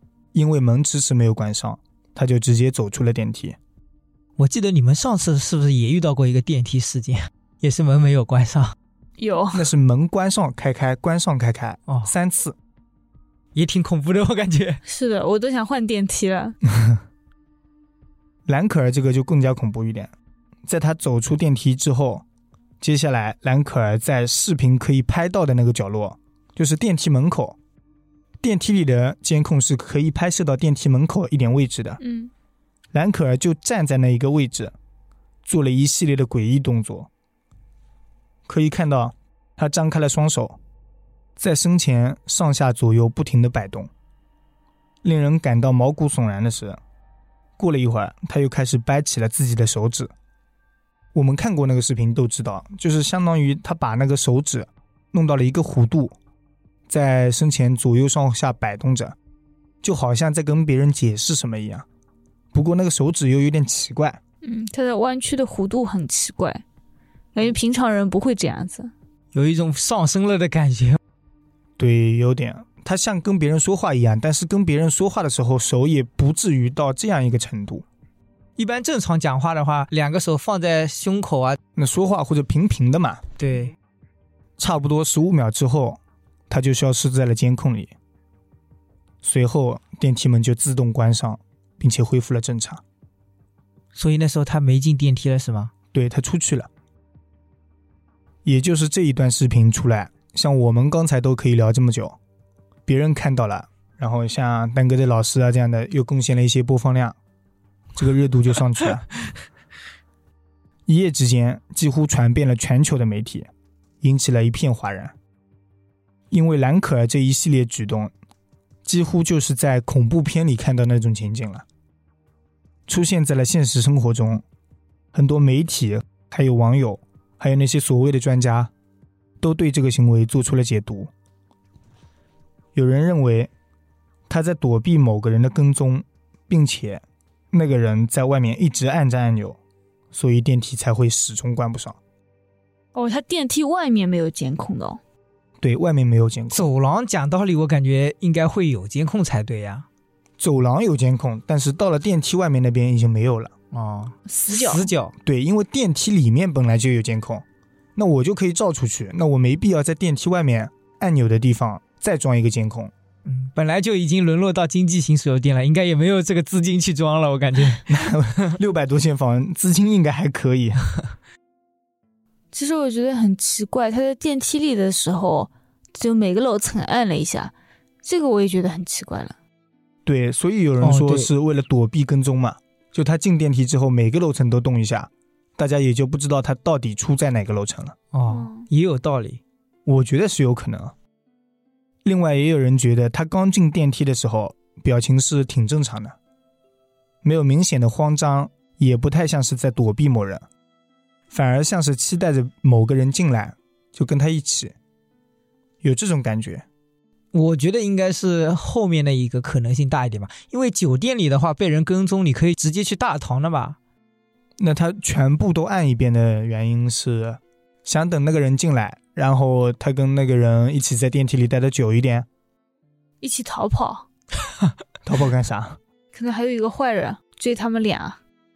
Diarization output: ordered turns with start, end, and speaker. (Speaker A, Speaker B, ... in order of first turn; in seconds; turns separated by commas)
Speaker A: 0.3-3.6, Speaker B: 4.4-8.8, Speaker C: 9.2-9.7, Speaker A: 9.5-12.6, Speaker B: 13.6-14.8, Speaker C: 14.8-16.6, Speaker A: 18.5-20.1, Speaker A: 20.7-22.2, Speaker A: 22.8-27.6, Speaker A: 28.4-32.0, Speaker C: 32.0-32.3, Speaker A: 32.9-34.7, Speaker A: 35.5-37.1, Speaker A: 38.5-40.6, Speaker A: 41.4-43.9, Speaker A: 45.0-46.8, Speaker A: 47.6-50.1, Speaker A: 51.1-56.2, Speaker A: 56.9-59.2, Speaker A: 59.8-61.9, Speaker A: 62.5-64.2, Speaker C: 64.4-66.6, Speaker C: 67.3-68.9, Speaker B: 69.3-71.0, Speaker A: 71.8-77.8, Speaker B: 78.6-81.6, Speaker A: 81.8-83.3, Speaker B: 83.4-83.7, Speaker A: 84.6-87.9, Speaker A: 89.2-92.8, Speaker B: 94.0-95.7, Speaker A: 95.9-96.7, Speaker A: 98.5-102.2, Speaker A: 102.9-107.2, Speaker A: 108.0-109.1, Speaker A: 110.9-113.5, Speaker A: 114.0-115.1, Speaker A: 116.3-118.1, Speaker A: 118.8-121.7, Speaker A: 122.9-124.4, Speaker A: 125.1-128.7, Speaker A: 129.4-131.1, Speaker A: 132.8-133.5, Speaker A: 134.3-139.6, Speaker A: 140.1-142.0, Speaker C: 142.9-145.0, Speaker A: 145.6-146.7, Speaker B: 146.5-149.9, Speaker A: 150.4-153.5, Speaker B: 153.7-155.1, Speaker C: 154.3-154.9, Speaker A: 155.2-157.4, Speaker A: 158.0-162.9, Speaker B: 163.2-167.9, Speaker A: 167.9-170.9, Speaker C: 172.5-179.4, Speaker A: 180.1-188.0, Speaker B: 180.8-181.3, Speaker B: 188.1-189.4, Speaker C: 188.3-188.7, Speaker A: 189.9-190.9, Speaker A: 192.1-196.2, Speaker A: 197.2-200.5, Speaker A: 201.3-204.8, Speaker A: 205.8-206.7, Speaker B: 207.3-213.8, Speaker A: 214.6-222.3, Speaker C: 223.2-224.1, Speaker A: 225.0-225.8, Speaker C: 226.1-228.2